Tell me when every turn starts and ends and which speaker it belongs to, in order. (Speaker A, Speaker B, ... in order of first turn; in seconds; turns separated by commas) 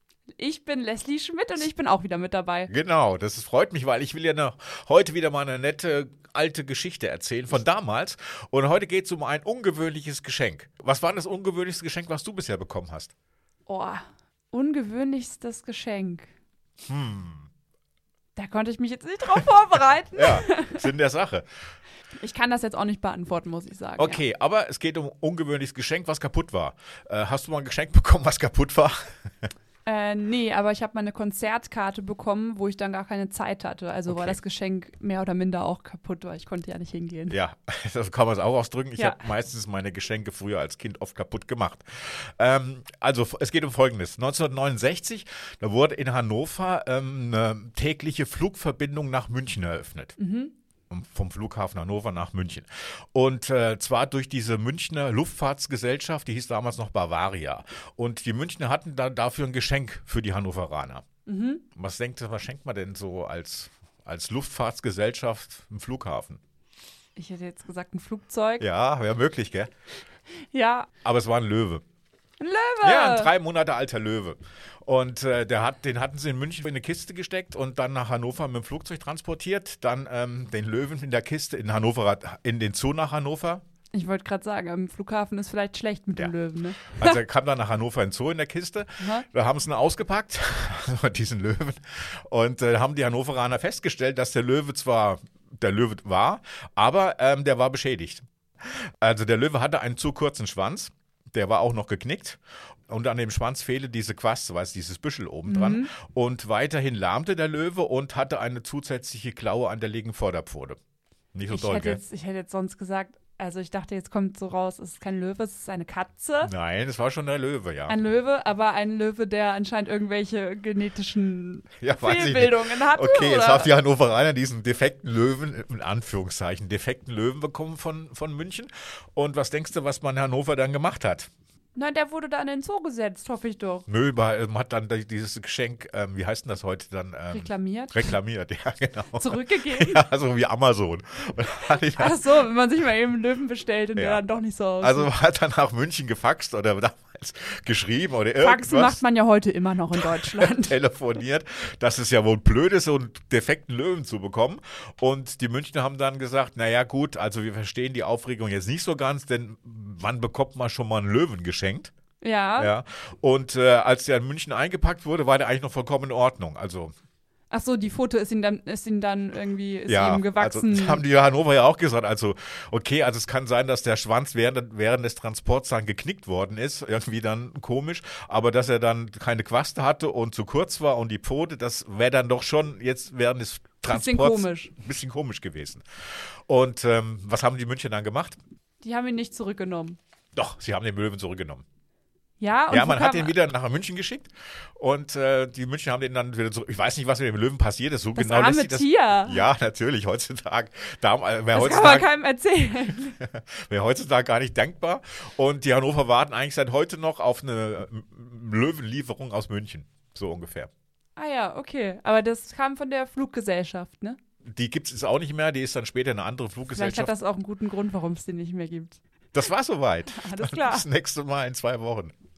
Speaker A: 0.4-2.7, Speaker B: 2.7-13.1, Speaker A: 13.7-16.3, Speaker B: 16.9-17.5, Speaker A: 18.4-20.9, Speaker B: 20.1-21.4, Speaker A: 22.2-24.2, Speaker B: 24.0-29.3, Speaker A: 29.9-37.4, Speaker B: 34.1-34.4, Speaker B: 37.3-50.1, Speaker A: 39.0-39.3, Speaker A: 50.2-50.5, Speaker B: 50.9-61.0, Speaker A: 61.2-61.6, Speaker B: 61.7-66.4, Speaker A: 67.2-68.6, Speaker B: 68.6-69.7, Speaker A: 70.5-70.9, Speaker B: 71.0-71.8, Speaker A: 72.4-73.3, Speaker B: 72.8-83.6, Speaker A: 83.9-87.2, Speaker B: 86.8-98.2, Speaker A: 89.0-89.2, Speaker B: 98.8-110.8, Speaker A: 105.5-105.9, Speaker B: 111.3-112.0, Speaker A: 111.5-116.5, Speaker B: 116.4-117.9, Speaker A: 117.9-123.7, Speaker B: 121.8-131.3, Speaker A: 131.7-133.9, Speaker B: 133.9-142.2, Speaker A: 137.3-138.1, Speaker A: 139.1-140.0, Speaker A: 141.9-145.1, Speaker B: 144.0-144.2, Speaker B: 144.8-149.0, Speaker A: 148.4-150.8, Speaker B: 150.0-161.9, Speaker A: 162.2-162.7, Speaker B: 162.6-166.9, Speaker A: 167.5-171.0, Speaker B: 169.9-185.8, Speaker A: 183.9-184.7, Speaker B: 186.5-188.4, Speaker A: 188.8-190.0, Speaker B: 190.3-191.6, Speaker A: 192.4-193.3, Speaker B: 192.7-202.1, Speaker A: 198.1-199.4, Speaker A: 201.5-203.2, Speaker B: 203.2-210.7, Speaker A: 211.2-214.2, Speaker B: 214.5-217.1, Speaker A: 216.7-219.0, Speaker B: 219.3-222.1, Speaker A: 220.1-220.9